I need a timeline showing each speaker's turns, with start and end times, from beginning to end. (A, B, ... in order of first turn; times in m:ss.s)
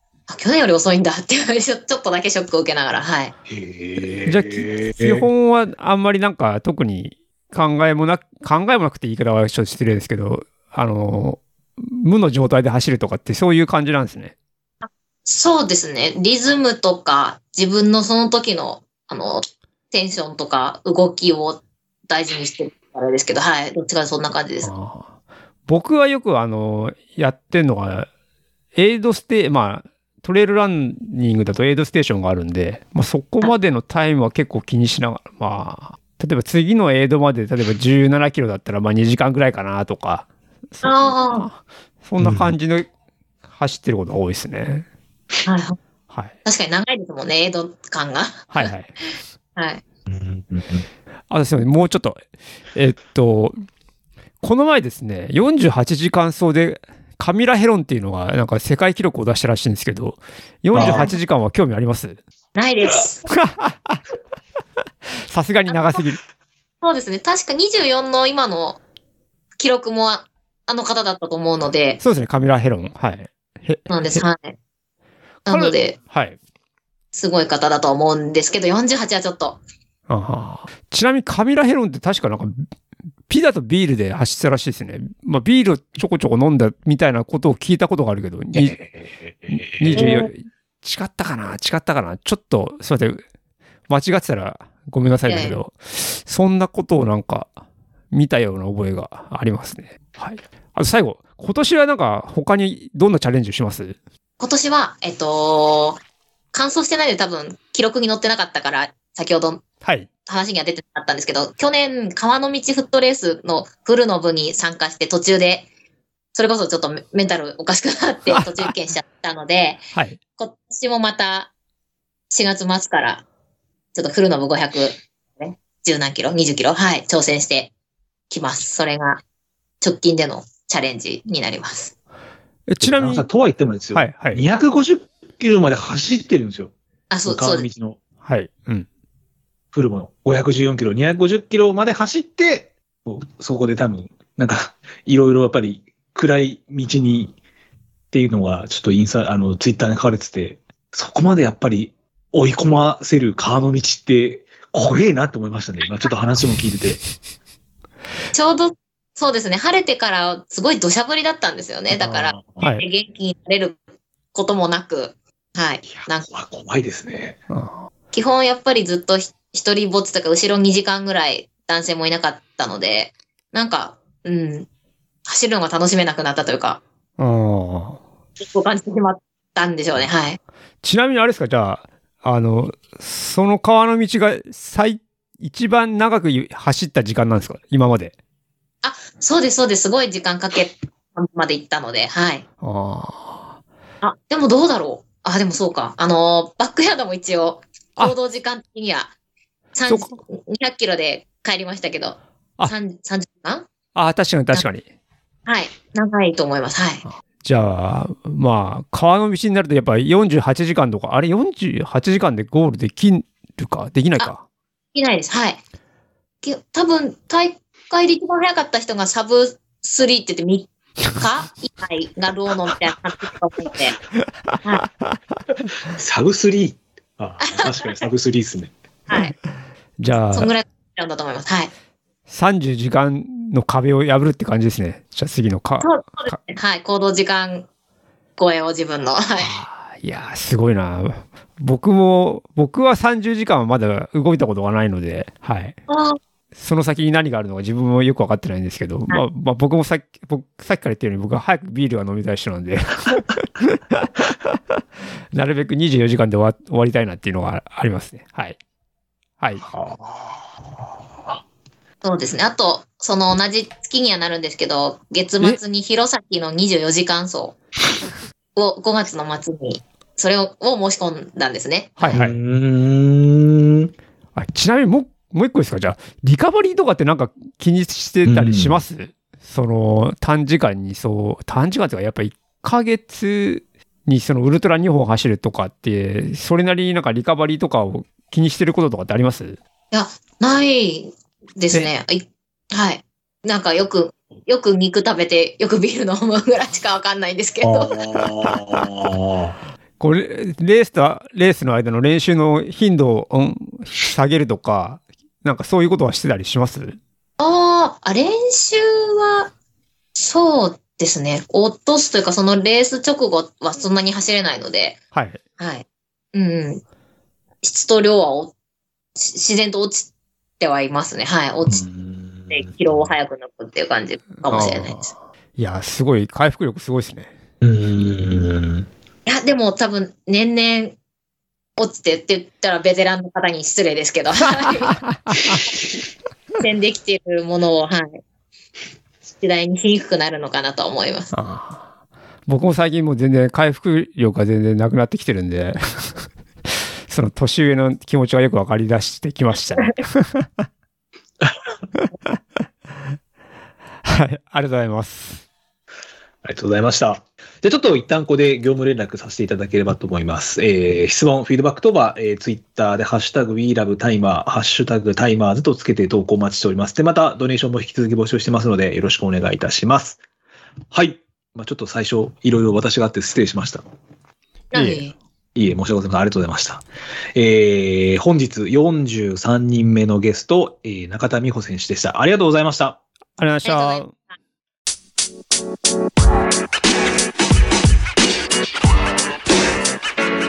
0:00.3-0:03.3 A
0:03.5-0:05.3 B
0:04.3-0:14.3 C
0:14.8-0:24.7 A
0:24.6-0:25.1 C
0:25.7-0:28.1 C
0:28.7-0:42.9 C
0:40.8-0:41.5 A
0:42.2-0:42.5 B
0:43.5-0:44.8 C
0:45.4-0:45.8 A
0:46.4-0:48.7 A
0:48.5-0:48.9 C
0:49.6-0:49.8 A
0:50.1-0:50.8 B
0:51.3-0:52.2 C
0:52.7-0:53.6 C
0:54.4-1:02.2 C
1:00.7-1:01.1 B
1:00.8-1:01.2 A
1:02.6-1:03.3 A
1:03.3-1:04.0 C
1:05.3-1:06.2 C
1:05.7-1:06.0 A
1:06.8-1:08.8 A
1:09.6-1:12.0 A
1:12.0-1:14.2 C
1:13.9-1:14.6 A
1:15.4-1:16.0 A
1:15.5-1:16.4 C
1:17.1-1:19.6 A
1:20.1-1:22.6 C
1:23.3-1:28.8 C
1:28.5-1:30.2 B
1:29.5-1:33.2 C
1:29.9-1:30.3 A
1:33.9-1:37.5 C
1:35.3-1:35.6 A
1:38.1-1:44.0 C
1:44.4-1:46.0 A
1:46.5-1:49.6 A
1:49.8-1:50.1 C
1:50.3-1:55.7 A
1:56.3-1:59.8 A
1:58.3-1:58.7 C
2:00.4-2:01.5 A
2:02.3-2:03.2 A
2:03.9-2:07.7 A
2:08.3-2:09.2 A
2:09.8-2:11.9 A
2:12.7-2:13.3 C
2:12.8-2:16.7 B
2:13.9-2:14.4 C
2:17.1-2:17.7 A
2:17.3-2:18.0 B
2:18.2-2:18.9 C
2:19.7-2:27.4 B
2:28.1-2:37.0 B
2:38.3-2:43.8 A
2:41.9-2:42.6 B
2:44.3-2:46.3 A
2:45.9-2:47.4 B
2:47.5-2:47.9 C
2:48.1-2:54.7 A
2:55.3-2:56.8 A
2:57.2-2:58.0 C
2:58.4-3:00.4 A
3:00.8-3:08.1 C
3:08.8-3:12.4 A
3:12.6-3:13.6 C
3:14.0-3:19.1 A
3:19.7-3:23.7 A
3:19.9-3:20.2 C
3:23.9-3:24.8 C
3:25.4-3:27.0 A
3:27.4-3:34.4 C
3:34.9-3:35.6 A
3:36.4-3:44.0 A
3:45.8-3:48.7 B
3:47.4-3:48.0 A
3:49.1-3:49.4 A
3:50.0-3:50.6 C
3:50.3-3:51.7 A
3:52.3-3:56.4 C
3:55.8-3:57.7 A
3:58.4-3:59.6 A
3:59.4-4:05.8 C
4:05.9-4:06.2 A
4:06.6-4:14.5 C
4:15.3-4:18.6 C
4:19.4-4:19.6 C
4:19.6-4:21.4 B
4:22.0-4:27.6 A
4:28.6-4:32.0 A
4:32.0-4:32.4 C
4:32.1-4:33.9 B
4:34.4-4:49.6 C
4:38.2-4:38.8 B
4:49.9-4:58.6 A
4:57.6-4:59.6 B
5:00.0-5:07.0 C
5:07.4-5:09.5 A
5:10.1-5:15.0 A
5:15.1-5:15.4 C
5:15.6-5:16.8 A
5:17.6-5:18.5 A
5:19.1-5:21.8 A
5:21.7-5:23.1 B
5:22.5-5:25.1 A
5:24.5-5:27.3 C
5:27.6-5:28.9 B
5:29.3-5:31.0 A
5:31.8-5:35.0 A
5:35.1-5:35.4 C
5:36.6-5:38.2 A
5:39.4-5:41.3 A
5:41.3-5:41.8 C
5:42.5-5:46.3 C
5:47.1-5:50.5 C
5:54.0-5:55.4 C
5:56.4-6:10.2 B
6:10.9-6:13.8 B
6:14.7-6:15.1 A
6:14.7-6:15.1 C
6:15.6-6:16.8 B
6:17.4-6:23.0 B
6:23.4-6:24.1 C
6:23.6-6:24.2 A